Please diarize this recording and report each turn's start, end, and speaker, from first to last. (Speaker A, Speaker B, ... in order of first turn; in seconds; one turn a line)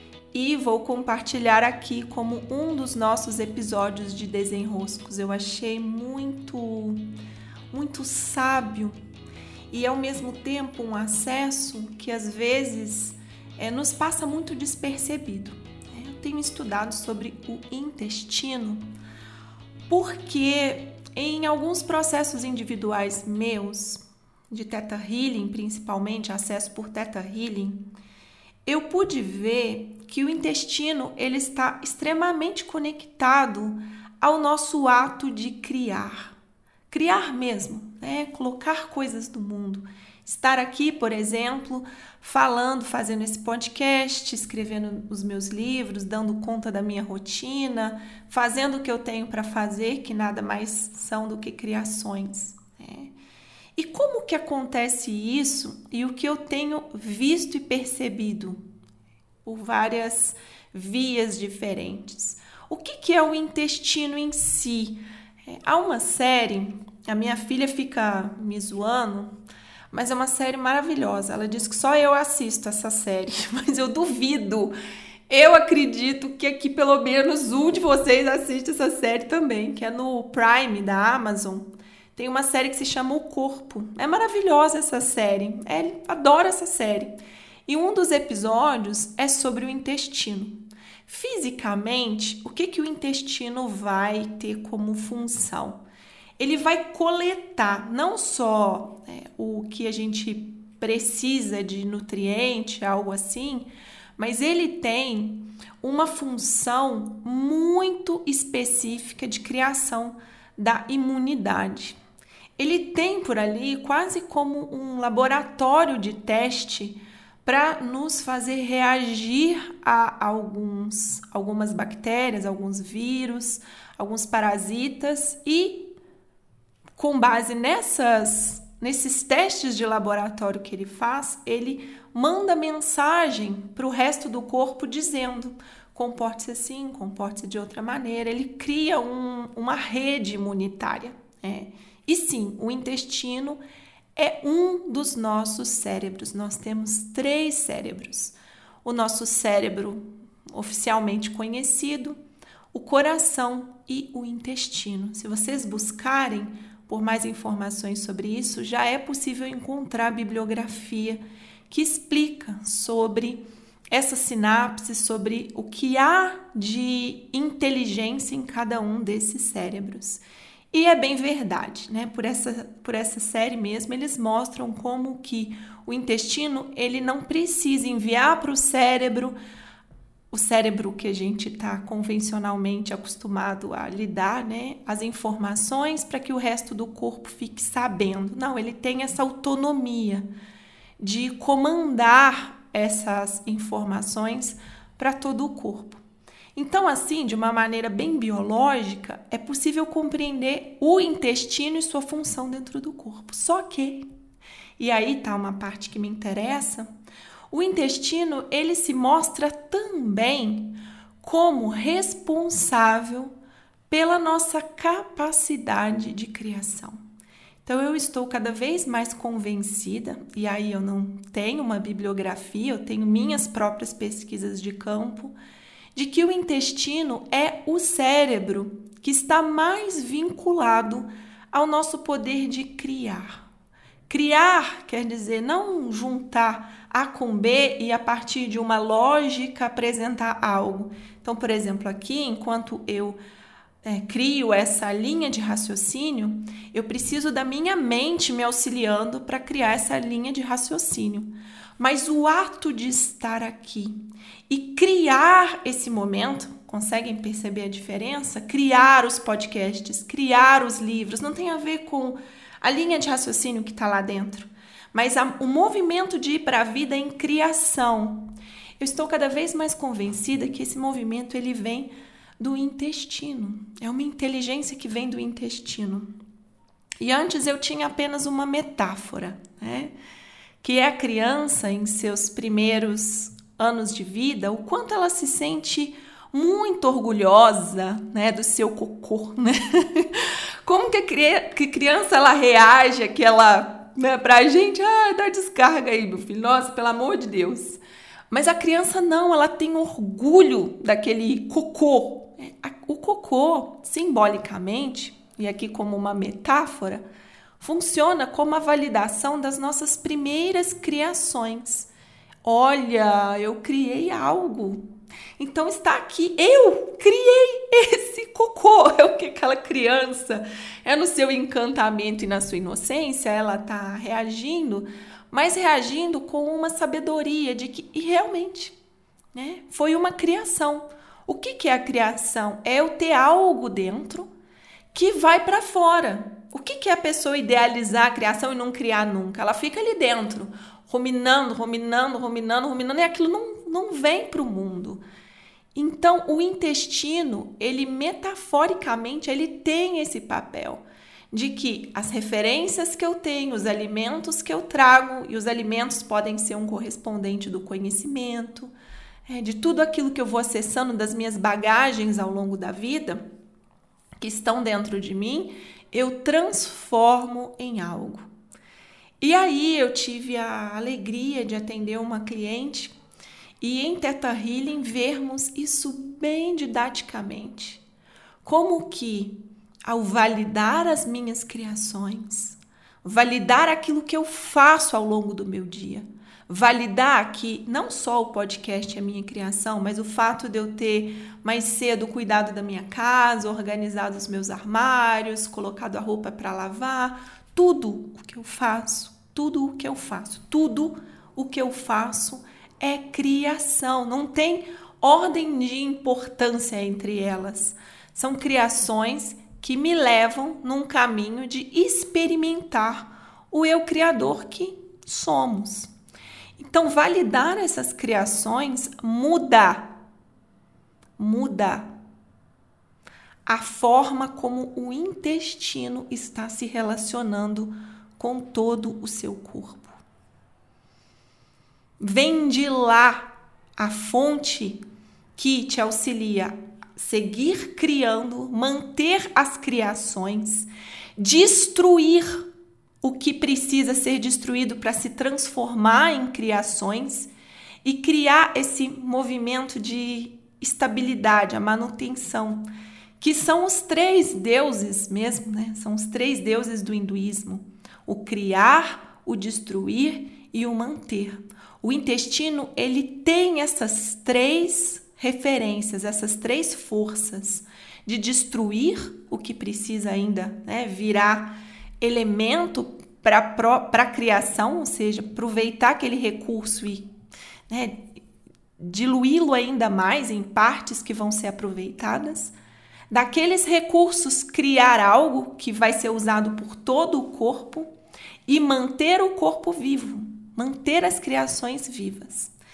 Speaker A: 0.3-7.1
Speaker A: 7.7-9.0
Speaker A: 9.7-18.9
Speaker A: 19.9-27.9
Speaker A: 28.6-36.3
Speaker A: 36.9-53.1
Speaker A: 53.8-58.6
Speaker A: 59.4-69.3
Speaker A: 69.9-74.7
Speaker A: 75.3-87.1
Speaker A: 87.7-95.8
Speaker A: 96.4-112.0
Speaker A: 112.6-125.9
Speaker A: 127.0-143.6
Speaker A: 144.1-152.2
Speaker A: 152.7-179.3
Speaker A: 180.3-190.2
Speaker A: 191.0-196.0
Speaker A: 196.5-204.0
Speaker A: 204.8-206.9
Speaker A: 207.5-213.3
Speaker A: 213.9-217.0
Speaker A: 217.6-225.3
Speaker A: 225.9-233.4
Speaker A: 234.1-243.2
Speaker A: 243.8-254.0
Speaker A: 254.5-268.3
Speaker A: 268.8-276.1
Speaker A: 277.0-279.9
Speaker A: 280.6-307.0
Speaker A: 307.6-311.9
Speaker A: 312.4-314.9
Speaker A: 315.4-328.7
Speaker A: 329.3-334.3
Speaker A: 334.9-345.0
Speaker A: 345.7-358.7
Speaker A: 359.3-363.2
Speaker A: 364.2-368.2
Speaker A: 369.2-372.9
Speaker A: 373.6-377.8
Speaker A: 378.4-415.9
Speaker A: 416.6-420.0
Speaker A: 421.2-421.9
Speaker A: 423.4-430.0
Speaker A: 432.0-434.8
Speaker A: 435.4-442.5
Speaker A: 443.0-447.3
Speaker A: 447.8-452.6
Speaker A: 453.2-477.1
Speaker A: 477.7-478.1
Speaker A: 478.8-482.5
Speaker A: 483.1-487.9
Speaker A: 488.4-492.5